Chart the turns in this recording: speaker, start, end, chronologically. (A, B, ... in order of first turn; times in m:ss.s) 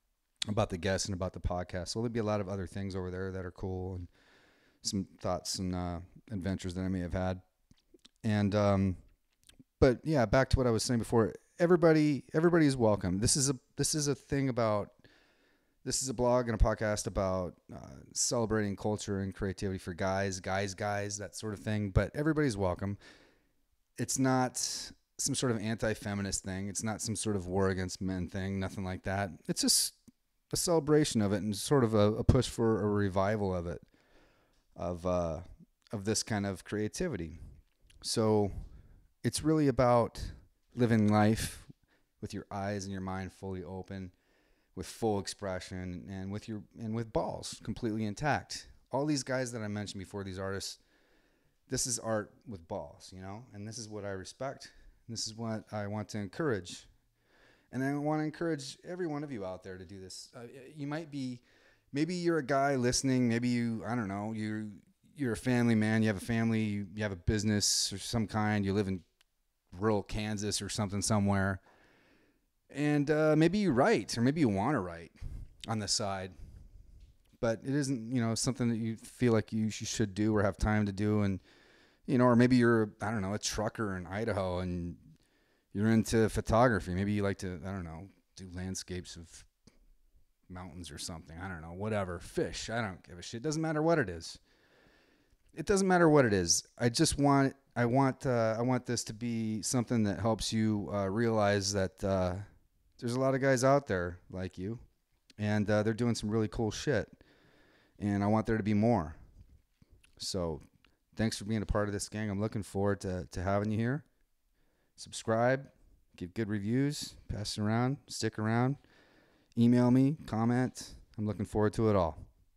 0:00.5-0:04.1 A
0:04.8-0:07.4 A
0:08.2-0:09.0 A
0:09.8-0:15.0 A
0:15.8-0:23.0 A
0:24.0-0:30.0 A
0:30.5-0:33.8 A
0:34.8-0:37.4 A
0:38.0-0:38.7 A
0:39.2-0:41.7 A
0:42.2-0:44.1 A
0:44.8-0:50.8 A
0:51.7-0:56.9 A
0:57.7-1:09.0 A
1:09.7-1:11.6 A
1:12.7-1:16.4 A
1:17.4-1:21.4 A
1:22.1-1:25.1 A
1:25.7-1:29.5 A
1:30.5-1:34.4 A
1:35.6-1:42.5 A
1:43.0-1:44.8 A
1:45.4-1:47.2 A
1:48.0-1:49.2 A
1:50.2-1:54.0 A
1:55.0-1:58.8 A
1:59.6-2:02.3 A